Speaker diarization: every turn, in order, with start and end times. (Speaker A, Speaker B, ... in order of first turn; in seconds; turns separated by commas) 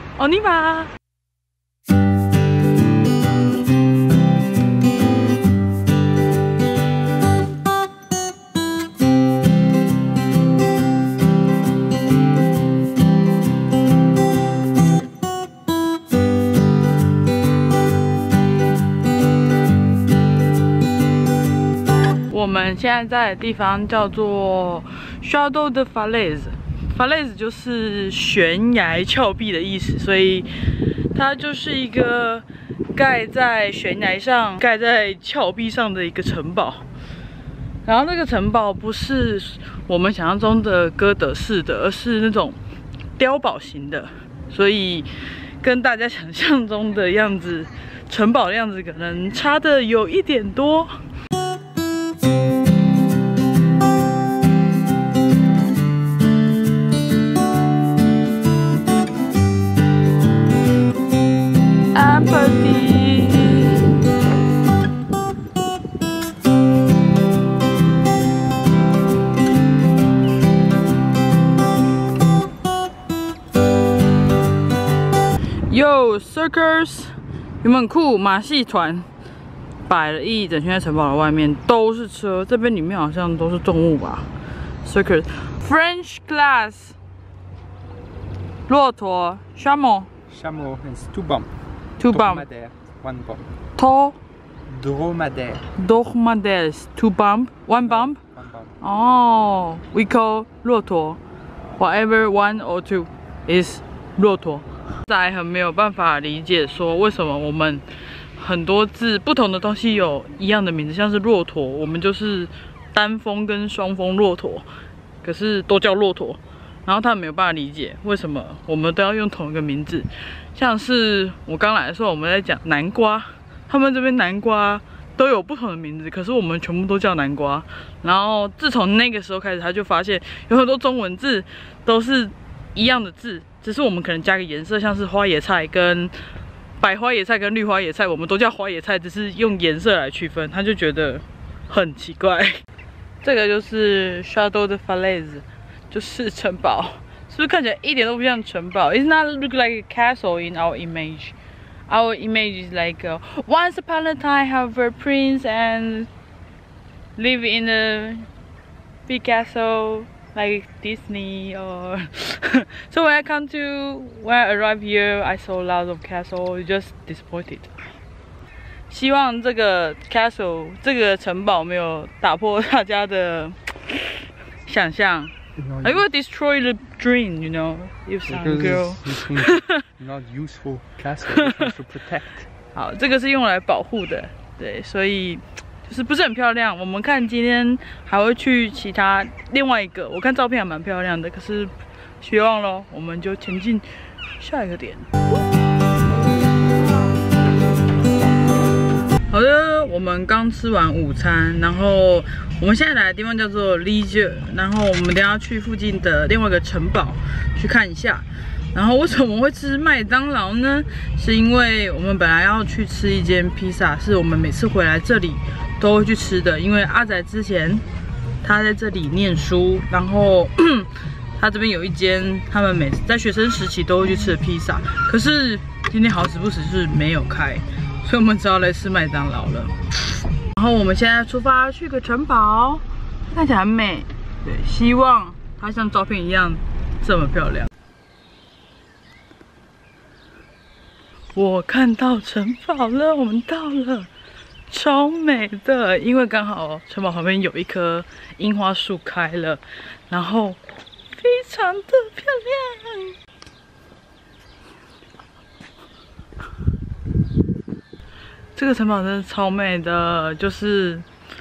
Speaker A: 0.1-0.9, Speaker A: 22.3-36.8, Speaker A: 37.8-42.6, Speaker A: 43.2-45.1, Speaker A: 45.6-51.0, Speaker A: 61.9-64.0, Speaker A: 75.7-79.1, Speaker A: 79.9-84.3, Speaker A: 84.8-87.0, Speaker A: 88.7-90.1, Speaker B: 90.3-91.5, Speaker A: 92.0-92.4, Speaker B: 92.1-93.4, Speaker A: 93.8-94.2, Speaker B: 94.7-95.6, Speaker A: 95.7-98.2, Speaker B: 97.8-98.7, Speaker A: 98.8-101.2, Speaker A: 101.8-107.8, Speaker A: 108.4-114.7, Speaker A: 115.2-136.2, Speaker A: 136.8-142.6, Speaker A: 143.2-151.3, Speaker A: 151.9-156.1, Speaker A: 157.2-158.3, Speaker A: 159.1-167.8, Speaker A: 168.9-179.8, Speaker B: 175.6-176.0, Speaker B: 178.3-182.4, Speaker A: 181.3-181.7, Speaker A: 182.7-195.1, Speaker A: 199.3-217.8, Speaker A: 218.4-229.7, Speaker A: 230.5-237.7, Speaker A: 241.3-244.1, Speaker A: 244.7-250.6, Speaker A: 251.1-253.2, Speaker A: 258.5-261.1